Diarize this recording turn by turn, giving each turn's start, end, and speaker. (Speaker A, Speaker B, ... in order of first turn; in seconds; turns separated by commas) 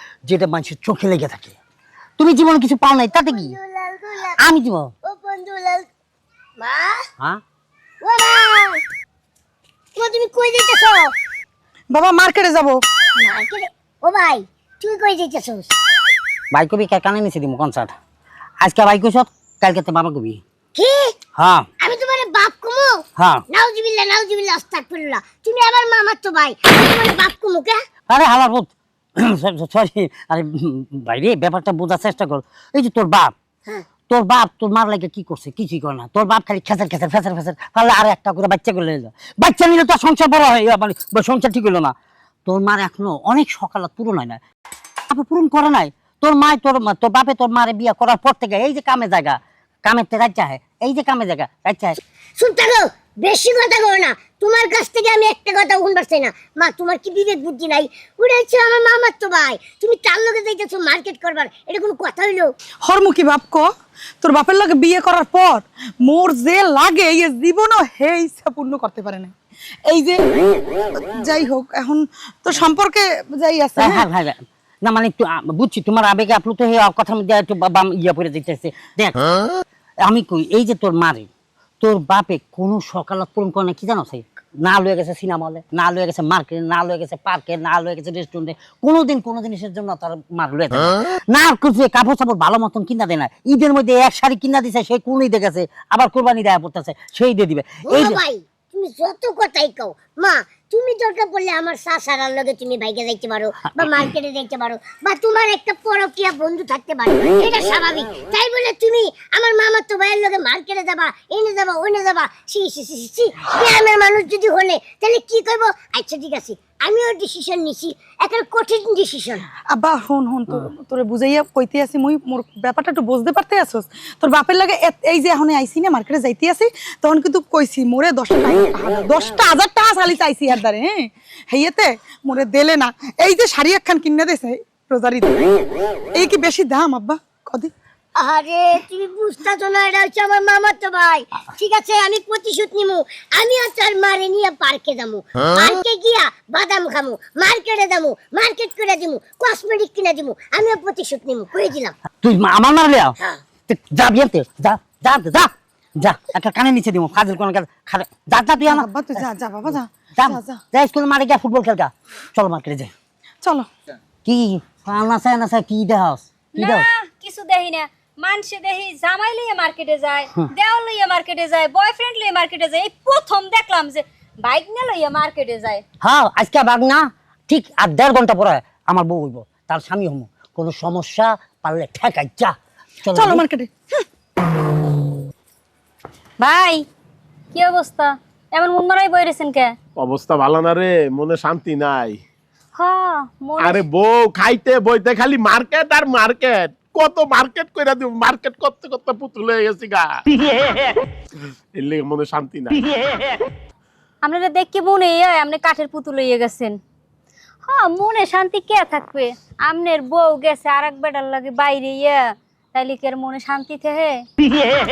Speaker A: 0.3-1.5, Speaker A: 2.2-3.5, Speaker B: 3.1-4.4, Speaker A: 4.4-4.9, Speaker B: 5.0-5.9, Speaker B: 6.6-7.0, Speaker B: 8.0-8.8, Speaker B: 9.9-11.1, Speaker C: 11.9-12.8, Speaker B: 13.2-15.7, Speaker A: 16.5-17.9, Speaker A: 18.6-20.4, Speaker B: 20.8-21.1, Speaker A: 21.4-21.7, Speaker B: 21.8-27.8, Speaker A: 23.2-23.4, Speaker A: 28.1-33.3, Speaker A: 34.1-41.9, Speaker A: 42.5-44.4, Speaker A: 45.1-52.0, Speaker B: 52.4-62.5, Speaker C: 62.8-63.7, Speaker C: 64.2-69.3, Speaker C: 69.9-70.2, Speaker C: 71.0-74.0, Speaker A: 73.8-79.5, Speaker A: 80.0-81.3, Speaker A: 81.8-98.2, Speaker B: 97.9-119.4, Speaker C: 119.7-135.4, Speaker C: 136.1-137.7, Speaker B: 138.2-151.9, Speaker A: 152.2-153.2, Speaker A: 153.7-159.2, Speaker C: 158.6-160.6, Speaker A: 160.2-162.9, Speaker C: 163.4-163.7, Speaker A: 164.2-166.9, Speaker D: 166.6-175.8, Speaker A: 176.0-182.5, Speaker A: 183.0-183.4, Speaker C: 183.1-184.0, Speaker D: 186.4-186.8, Speaker D: 187.5-189.7, Speaker E: 190.0-192.2, Speaker D: 192.8-193.8, Speaker E: 193.6-200.1, Speaker E: 201.7-202.9, Speaker D: 204.2-206.8, Speaker D: 207.6-212.2, Speaker D: 212.7-214.2